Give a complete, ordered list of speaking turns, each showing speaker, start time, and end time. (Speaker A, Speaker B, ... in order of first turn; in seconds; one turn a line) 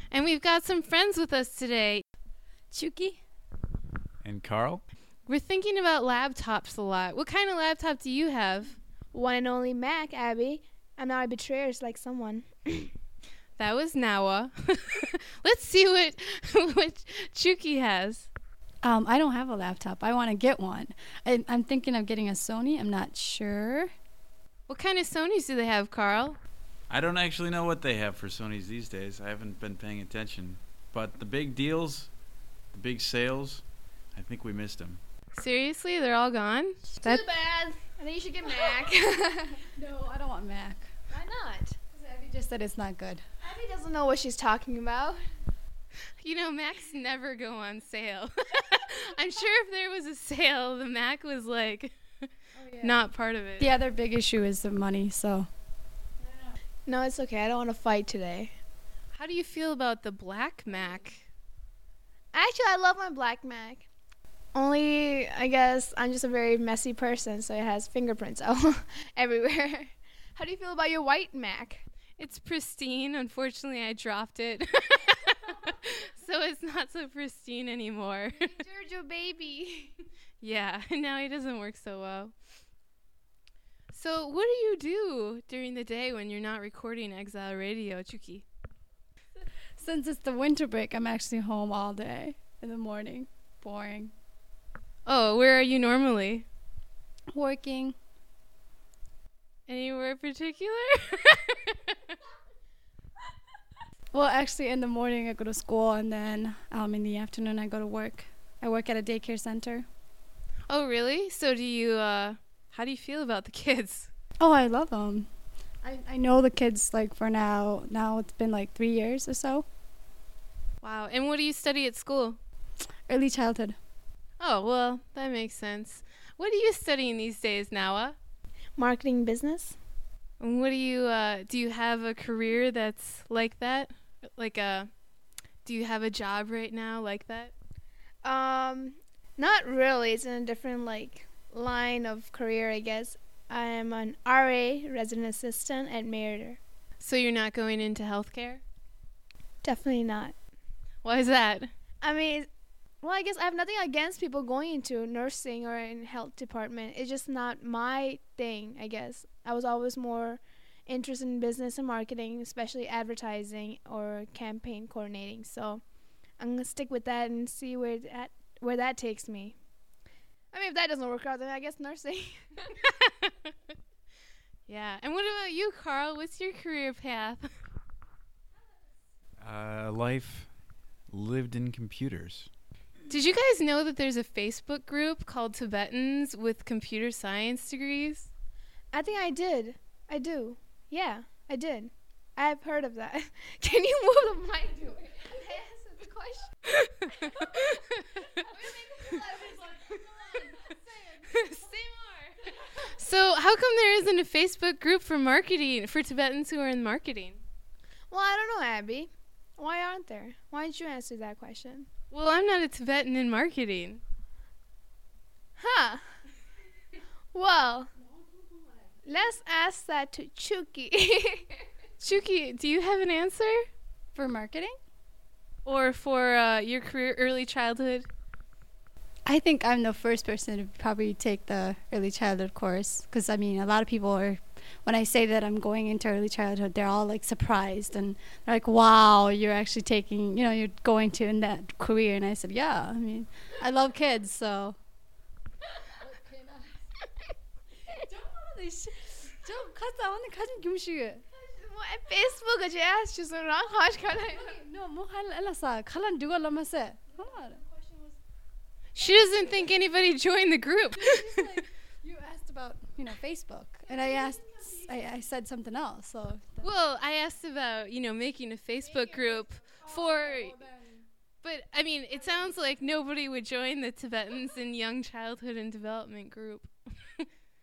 Speaker A: 0.1-2.0
Speaker B: 2.7-3.2
Speaker C: 4.2-4.9
Speaker A: 5.3-8.8
Speaker D: 9.1-12.9
Speaker A: 13.6-18.3
Speaker B: 18.8-23.9
Speaker A: 24.7-26.4
Speaker C: 26.9-32.1
Speaker C: 32.7-33.6
Speaker C: 34.1-35.0
Speaker A: 35.3-37.2
Speaker D: 37.0-39.6
Speaker B: 39.8-40.9
Speaker D: 41.1-41.8
Speaker B: 41.9-43.2
Speaker D: 43.4-45.2
Speaker A: 46.2-51.9
Speaker B: 52.5-53.0
Speaker A: 52.8-53.7
Speaker B: 53.6-55.5
Speaker D: 56.9-58.5
Speaker A: 59.1-61.2
Speaker D: 62.3-63.9
Speaker D: 64.5-71.8
Speaker A: 72.2-78.5
Speaker D: 78.4-79.9
Speaker A: 80.4-82.3
Speaker A: 83.9-88.4
Speaker B: 89.8-94.1
Speaker A: 95.0-96.5
Speaker B: 97.3-98.0
Speaker A: 99.7-102.0
Speaker B: 104.1-109.8
Speaker A: 110.7-114.1
Speaker B: 114.4-115.3
Speaker B: 115.8-119.7
Speaker A: 120.8-122.4
Speaker B: 123.1-123.8
Speaker A: 124.4-128.2
Speaker D: 128.8-129.8
Speaker A: 130.4-134.9
Speaker A: 135.7-137.5
Speaker D: 138.2-146.6
Speaker A: 147.0-148.6
Speaker D: 149.6-150.3
Speaker A: 151.0-151.7
Speaker D: 152.0-152.5
Speaker D: 153.0-165.8
Speaker D: 166.4-169.6
Speaker D: 170.5-172.4
Speaker A: 172.8-173.5
Speaker A: 174.7-177.5
Speaker C: 179.4-180.5
Speaker C: 181.1-182.5
Speaker A: 183.1-188.3
Speaker D: 188.9-196.5
Speaker A: 196.8-198.3
Speaker D: 198.4-202.5
Speaker A: 201.3-201.6
Speaker A: 202.8-207.4
Speaker D: 208.1-211.9
Speaker A: 212.1-214.0
Speaker D: 215.6-216.0
Speaker D: 217.3-217.9
Speaker D: 219.1-221.5
Speaker A: 222.0-223.7
Speaker B: 224.2-224.8
Speaker A: 225.7-228.1
Speaker B: 229.2-244.8
Speaker B: 246.0-246.7
Speaker B: 247.9-251.2
Speaker D: 251.3-254.5
Speaker B: 254.3-257.7
Speaker A: 258.9-261.3
Speaker B: 261.0-266.6
Speaker A: 266.6-270.6
Speaker B: 270.2-271.0
Speaker A: 271.4-277.2